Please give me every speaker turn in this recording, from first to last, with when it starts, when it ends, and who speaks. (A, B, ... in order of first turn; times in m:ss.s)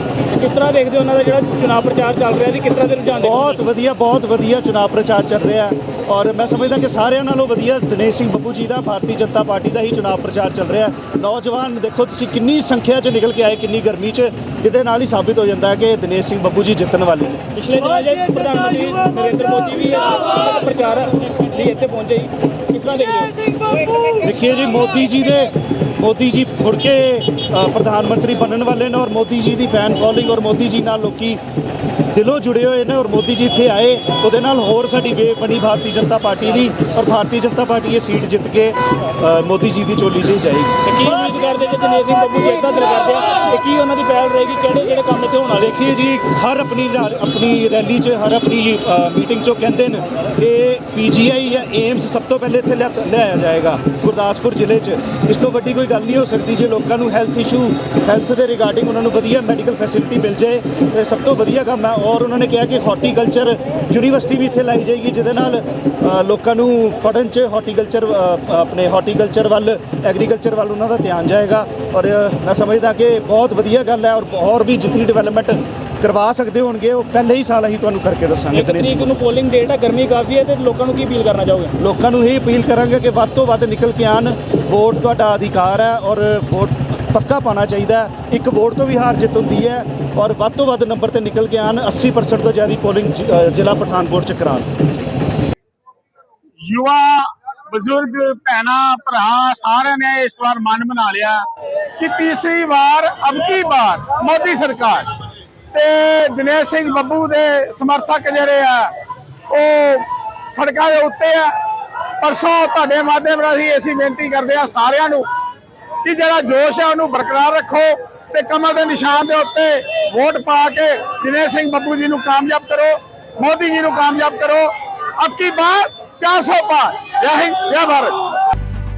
0:00.3-0:03.6 A
0:03.2-0:17.4 B
0:17.5-0:24.2 A
0:24.2-0:31.4 B
0:32.1-0:40.8 B
0:40.8-0:45.7 A
0:45.6-1:19.1 B
1:18.5-1:21.7 A
1:21.8-1:34.9 B
1:36.6-1:41.5 C
1:42.0-1:45.1 C
1:45.7-1:48.9 C
1:49.5-1:51.5 C
1:52.2-1:55.3 C
1:56.0-2:08.2 C